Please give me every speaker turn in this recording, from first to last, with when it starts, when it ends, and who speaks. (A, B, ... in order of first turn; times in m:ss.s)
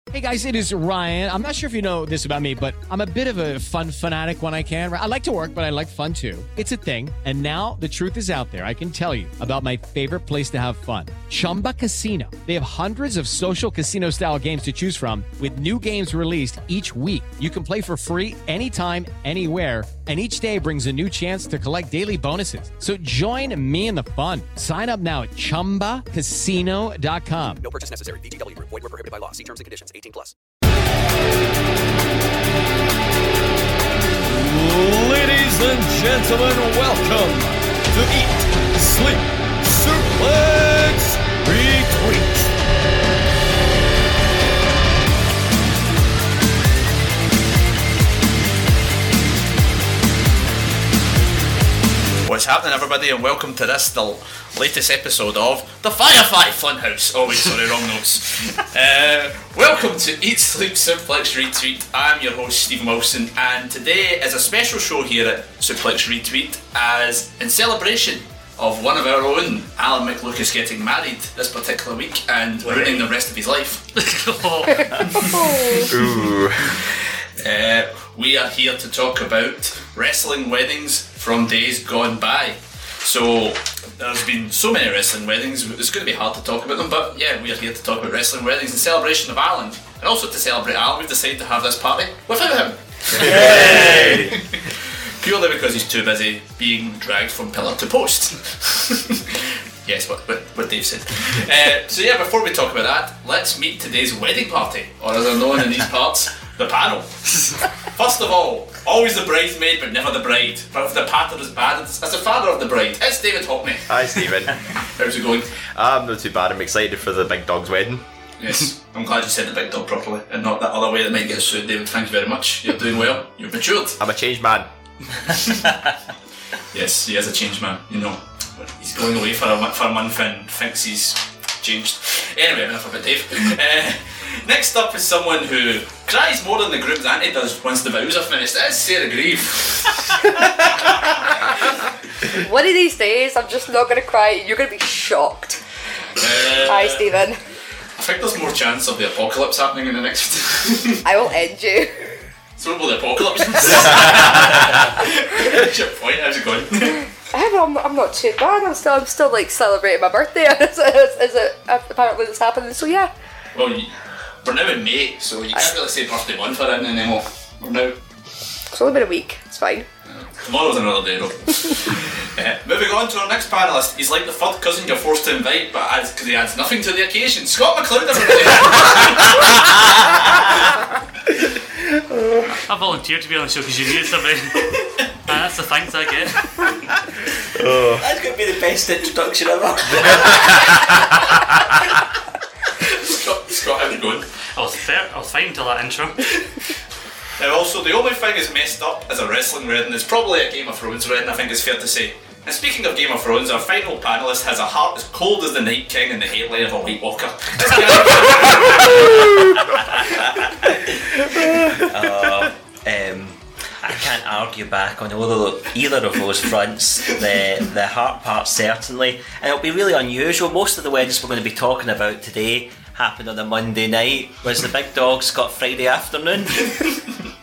0:00.1-0:27.6 A
0:27.6-0:30.4 B
0:34.2-0:42.5 C
0:52.2-1:13.8 D
1:14.0-1:15.2 E
1:15.2-1:15.9 F
1:15.9-1:16.8 G
1:17.4-1:34.7 D
1:33.2-1:34.3 G
1:33.3-1:34.3 H
1:35.2-1:47.2 D
1:47.9-1:53.8 D
1:53.9-1:54.5 G
1:55.0-1:55.5 D
1:55.8-1:58.0 G
1:58.4-2:04.0 D
2:04.0-2:04.7 G
2:06.7-2:21.2 D
2:22.4-2:25.6 F
2:26.2-2:27.1 D
2:26.7-2:27.4 F
2:28.0-2:31.0 D
2:31.0-2:32.2 F
2:32.6-2:37.0 D
2:37.3-2:43.1 F
2:43.5-2:43.9 D
2:44.4-2:48.0 D
2:48.7-2:49.9 F
2:50.1-2:59.4 D
3:02.7-3:04.6 E
3:05.3-3:06.7 E
3:07.6-3:08.0 G
3:08.0-3:10.9 H
3:13.0-3:14.3 D
3:14.6-3:16.2 E
3:17.4-3:29.4 D
3:29.7-3:46.7 H